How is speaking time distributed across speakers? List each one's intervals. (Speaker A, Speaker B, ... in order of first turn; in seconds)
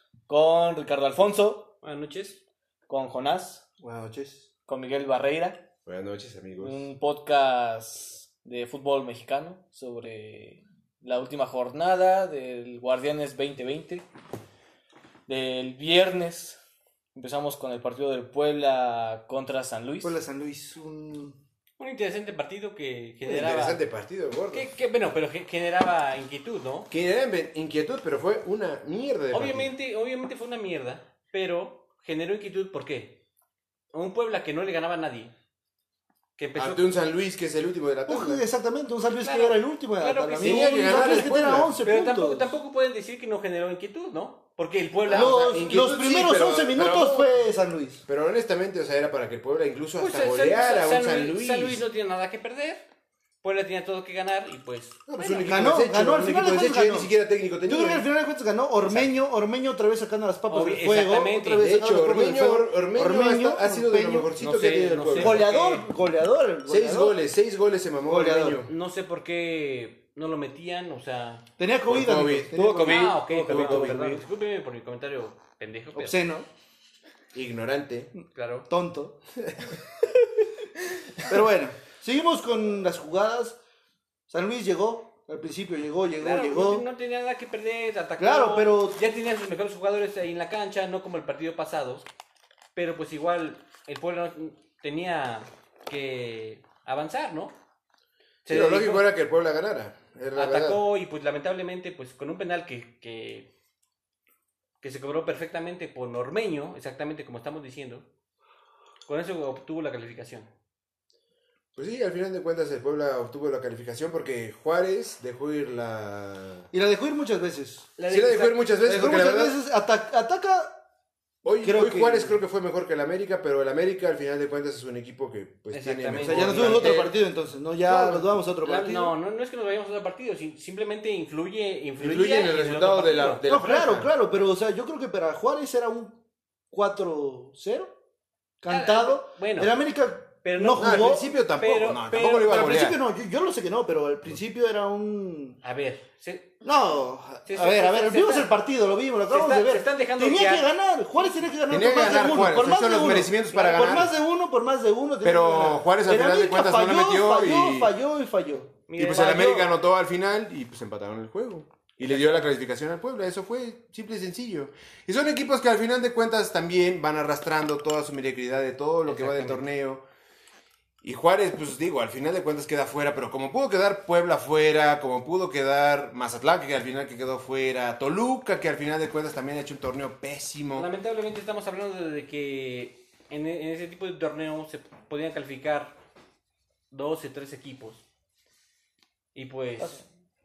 Speaker A: 0.3-1.7, 2.9-3.6, 4.7-5.6, 6.6-14.1, 15.3-16.6, 17.1-20.1, 72.5-74.2
Speaker B: 1.8-2.4, 21.8-23.9, 24.5-26.9, 29.3-33.2, 33.9-35.3, 36.4-36.8, 39.2-45.8, 50.0-52.9, 53.4-55.7, 58.9-59.1, 60.5-61.6, 64.4-65.9, 68.7-71.5, 72.7-76.2, 78.3-78.7, 86.2-92.1, 92.8-97.5, 98.5-99.1, 100.3-103.5, 104.8-108.0, 109.1-110.5, 118.0-118.7, 125.7-127.0, 127.9-133.4, 138.7-139.7, 140.4-142.9, 145.6-146.5, 147.5-148.5, 149.3-151.5, 158.9-159.7, 169.1-169.6, 180.8-186.0, 186.9-188.0, 189.3-190.0
Speaker C: 3.8-4.5, 20.0-21.4, 38.1-42.5, 45.1-48.0, 55.5-57.1, 57.7-64.3, 65.2-67.2, 68.0-68.7, 71.6-74.0, 76.0-76.5, 78.7-79.8, 81.3-83.6, 84.3-86.8, 88.2-89.0, 116.7-117.9, 118.8-120.8, 121.6-122.4, 126.2-129.1, 133.5-136.2, 136.7-137.9, 138.6-141.3, 142.2-145.6, 146.6-158.9
Speaker D: 5.9-6.9, 23.2-24.7, 26.9-29.7, 36.6-38.5, 40.4-41.8, 45.1-47.3, 48.1-51.8, 55.1-58.0, 61.6-65.5, 66.7-68.7, 71.9-72.5, 77.3-78.1, 98.5-100.8, 111.8-116.7, 118.1-119.6, 121.4-127.2, 132.0-134.1, 140.8-143.0, 151.7-154.1, 155.2-157.9, 158.9-170.0, 171.0-180.9